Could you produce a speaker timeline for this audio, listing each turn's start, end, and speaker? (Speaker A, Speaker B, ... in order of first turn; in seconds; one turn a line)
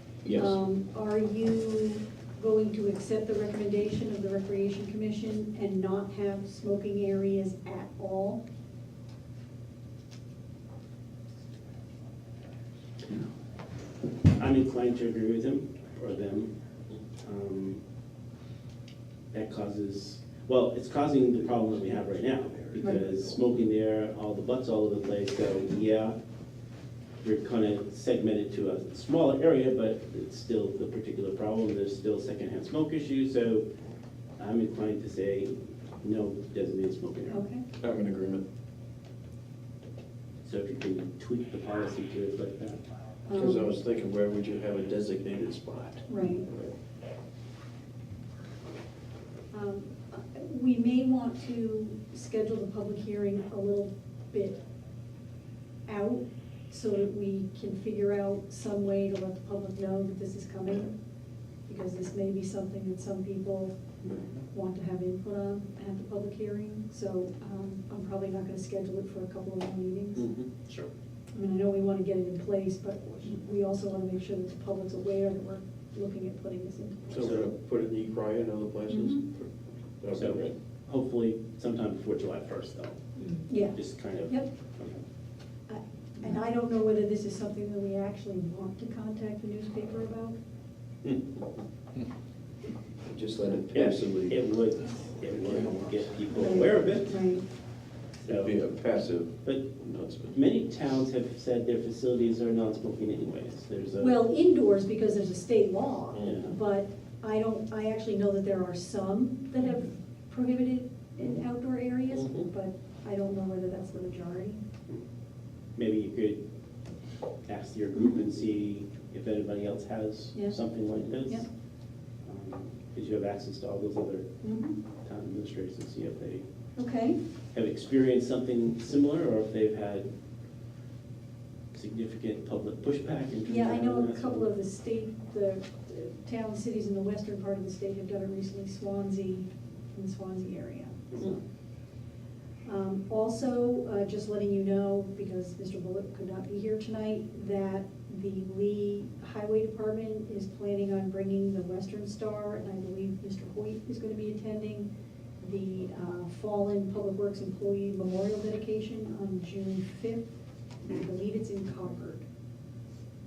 Speaker A: 0.2-0.6
Speaker B: 0.3-8.4
Speaker C: 14.3-16.5
Speaker C: 17.2-17.8
Speaker C: 19.3-26.2
Speaker C: 27.2-33.6
Speaker C: 34.4-37.4
Speaker B: 37.3-37.6
Speaker A: 37.8-38.4
Speaker C: 40.4-42.8
Speaker B: 43.3-43.7
Speaker A: 43.3-46.7
Speaker B: 46.1-46.5
Speaker B: 49.5-54.6
Speaker B: 55.9-60.9
Speaker B: 61.7-63.8
Speaker B: 64.5-70.3
Speaker A: 70.2-70.5
Speaker B: 71.3-77.0
Speaker A: 77.1-80.5
Speaker C: 77.1-77.5
Speaker B: 78.9-79.2
Speaker C: 80.1-83.0
Speaker B: 83.5-84.5
Speaker C: 83.7-85.0
Speaker B: 85.7-90.4
Speaker A: 93.0-94.4
Speaker C: 93.7-97.2
Speaker A: 95.4-96.1
Speaker B: 96.3-97.4
Speaker C: 98.2-98.5
Speaker A: 98.2-100.3
Speaker C: 99.4-104.2
Speaker B: 104.0-114.6
Speaker A: 106.1-106.5
Speaker A: 112.2-112.5
Speaker C: 115.8-116.4
Speaker C: 117.5-121.5
Speaker C: 122.2-124.3
Speaker B: 124.4-124.8
Speaker C: 125.0-126.4
Speaker B: 126.8-127.2
Speaker C: 127.5-130.1
Speaker C: 131.7-134.4
Speaker B: 133.4-141.4
Speaker B: 142.6-154.9
Speaker B: 155.4-160.2
Speaker B: 160.8-162.2